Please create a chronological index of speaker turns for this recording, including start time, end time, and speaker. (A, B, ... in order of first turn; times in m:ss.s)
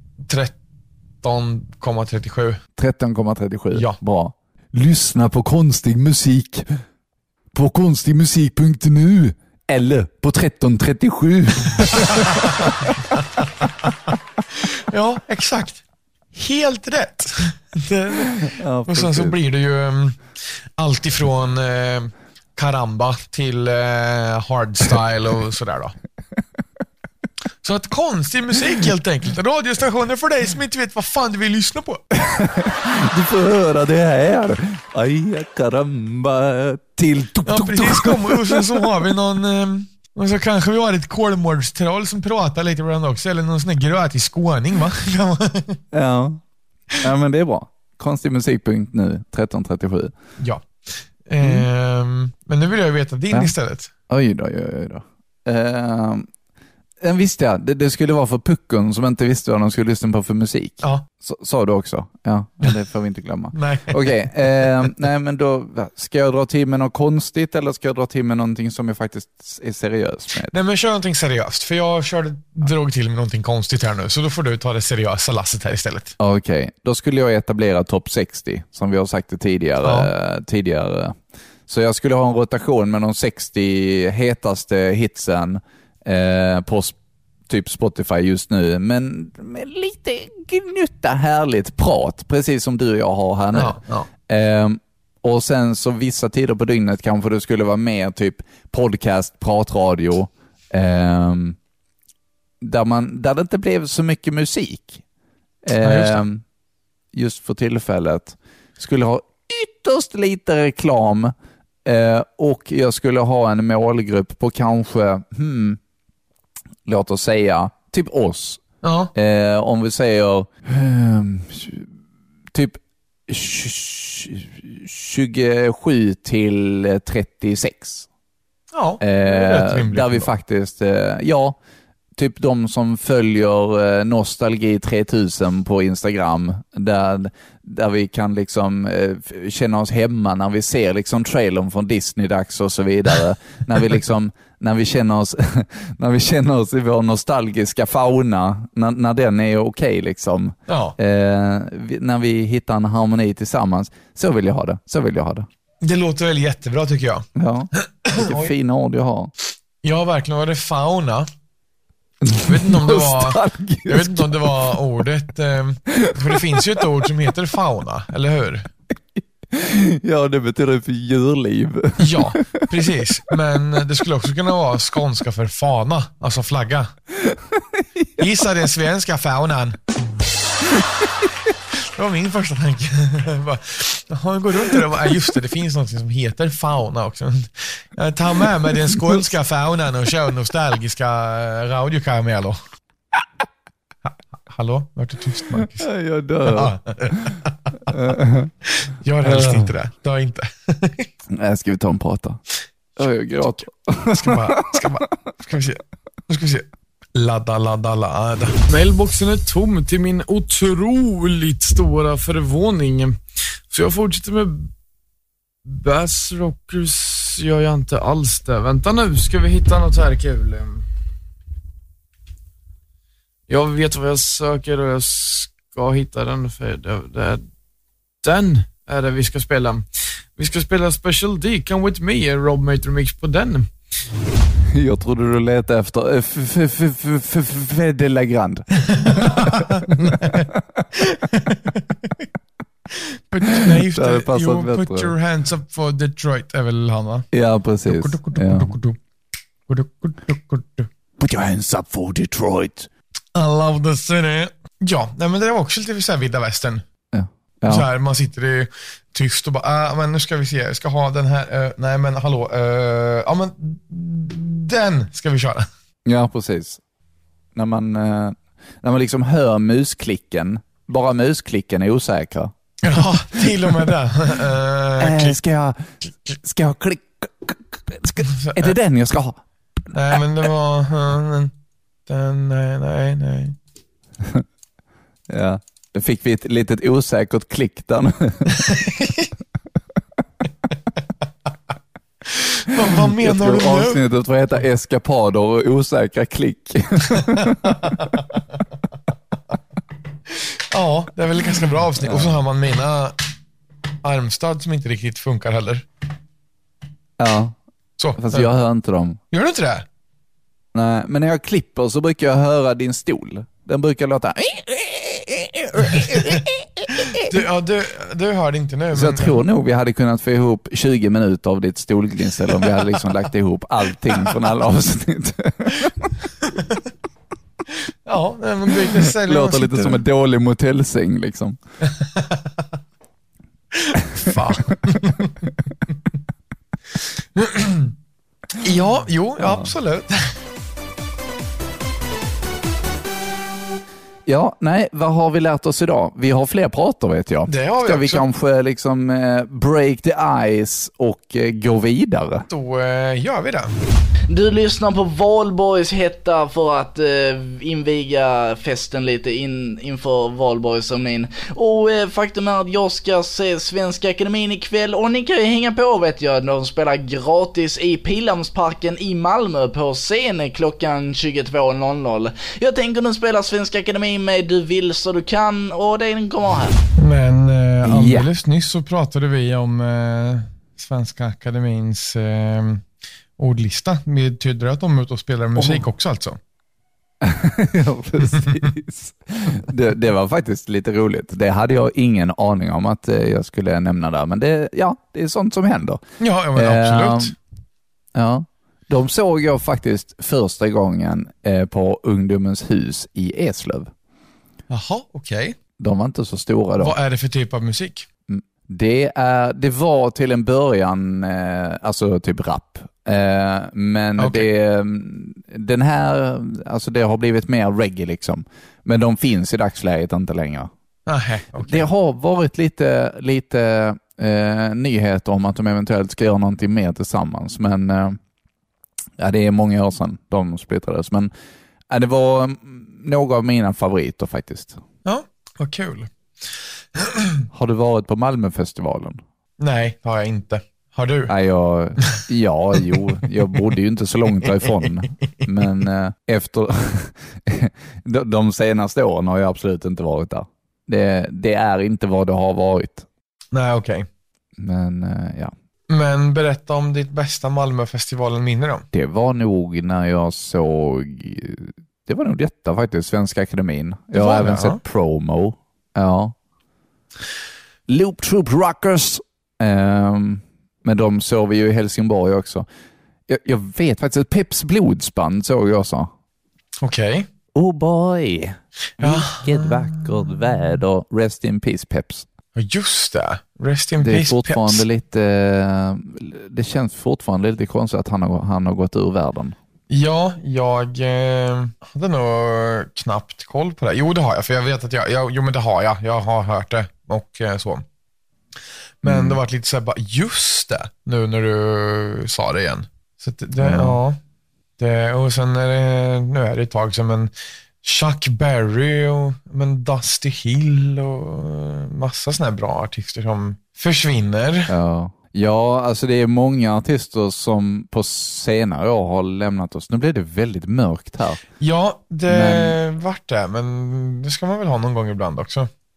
0:00.2-0:00.6 A
0:01.2-0:02.6 A
0:02.8-0:06.8 B
0:03.7-0:04.0 A
0:07.5-0:12.9 B
0:12.1-0:13.9 A
0:14.5-0:15.8 A
0:16.3-0:26.0 A
0:18.4-0:19.4 B
0:27.6-0:32.0 A
0:32.2-0:38.8 B
0:37.4-0:45.8 A
0:45.9-0:46.4 B
0:47.0-0:50.1 B
0:50.4-0:53.9 A
0:51.4-0:51.7 B
0:54.1-0:56.3 B
0:57.0-1:10.5 B
1:03.5-1:04.9 A
1:10.5-1:16.2 A
1:16.2-1:27.0 B
1:19.8-1:20.1 A
1:27.5-1:41.6 B
1:33.5-1:34.1 A
1:42.6-1:45.0 B
1:45.6-1:46.4 B
1:45.8-1:46.2 A
1:47.1-1:51.3 B
1:51.8-1:55.8 B
1:56.9-1:58.6 B
1:58.8-1:59.1 A
1:59.2-2:01.9 B
2:02.5-2:08.1 B
2:08.7-2:10.3 A
2:09.0-2:11.6 B
2:12.2-2:35.5 B
2:30.7-2:31.0 A
2:35.8-2:38.5 A
2:37.4-2:39.3 B
2:39.8-2:41.3 A
2:42.2-2:44.8 B
2:42.4-2:48.7 A
2:45.9-2:46.6 B
2:49.2-2:52.7 B
2:52.0-2:57.0 A
2:57.3-2:58.0 B
2:58.2-2:59.8 A
3:01.7-3:12.6 A
3:08.9-3:09.2 B
3:14.1-3:15.9 A
3:15.5-3:18.5 B
3:16.4-3:18.0 A
3:18.7-3:21.1 A
3:19.2-3:19.7 B
3:21.3-3:22.4 B
3:23.0-3:24.8 B
3:24.1-3:28.6 A
3:28.7-3:34.7 C
3:35.6-3:40.9 C
3:43.5-3:47.5 C
3:48.2-3:53.8 C
3:54.7-4:00.5 B
3:58.9-4:02.3 A
4:02.9-4:07.3 A
4:03.4-4:05.1 B
4:07.3-4:08.7 B
4:07.8-4:09.0 A
4:09.7-4:10.9 A
4:11.2-4:12.9 B
4:13.3-4:16.8 A
4:17.1-4:17.9 B
4:17.6-4:25.7 A
4:26.1-4:26.8 B
4:27.6-4:33.9 B
4:32.8-4:35.4 A
4:35.0-4:39.4 B
4:38.2-4:38.8 A
4:39.9-4:41.5 A
4:42.1-4:43.6 A
4:45.3-4:48.6 B
4:48.5-4:49.3 A
4:52.2-4:54.0 A
4:52.8-4:58.0 B
4:57.3-4:58.2 A
5:00.3-5:03.2 A
5:02.0-5:02.4 B
5:04.0-5:05.9 A
5:07.2-5:07.6 B
5:08.0-5:08.5 A
5:08.2-5:09.2 B
5:09.3-5:09.9 A
5:10.7-5:17.3 B
5:15.8-5:16.4 A
5:17.1-5:19.4 A
5:18.9-5:26.1 B
5:22.6-5:23.0 A
5:26.4-5:26.9 A
5:27.7-5:30.0 A
5:29.1-5:31.6 B
5:31.8-5:32.6 A
5:33.7-5:35.9 A
5:37.4-5:37.9 A
5:38.6-5:40.4 A
5:39.4-5:39.7 B
5:44.3-5:52.5 B
5:47.5-5:48.2 A
5:52.5-5:53.7 A
5:54.3-6:16.8 D
6:17.0-6:22.8 A
6:17.8-6:18.3 B
6:23.4-6:26.4 A
6:25.6-6:25.9 B
6:27.2-6:36.0 B
6:36.2-6:37.4 A
6:36.6-6:37.4 B
6:38.2-6:43.9 B
6:44.7-6:45.6 A
6:45.8-6:47.0 B
6:46.8-6:48.1 A
6:48.3-7:00.7 B
6:54.2-6:54.5 A
7:01.1-7:01.9 A
7:01.6-7:08.2 B
7:09.2-7:11.3 B
7:11.9-7:14.8 B
7:15.0-7:16.1 A
7:17.0-7:17.5 A
7:17.5-7:19.2 B
7:19.6-7:21.3 A
7:21.3-7:33.1 B
7:24.5-7:24.9 A
7:33.5-7:34.1 A
7:34.6-7:35.5 B
7:35.9-7:38.9 A
7:38.9-7:46.4 B
7:44.1-7:44.8 A
7:47.9-7:52.7 B
7:53.3-7:56.1 B
7:56.8-7:57.3 A
7:57.5-8:02.3 B
7:59.0-8:00.8 A
8:02.6-8:04.8 A
8:04.0-8:09.6 B
8:09.9-8:17.8 A
8:19.0-8:24.2 A
8:19.0-8:19.4 B
8:23.6-8:24.0 B
8:24.8-8:34.7 A
8:34.7-8:41.4 B
8:41.6-8:45.7 A
8:42.3-8:42.8 B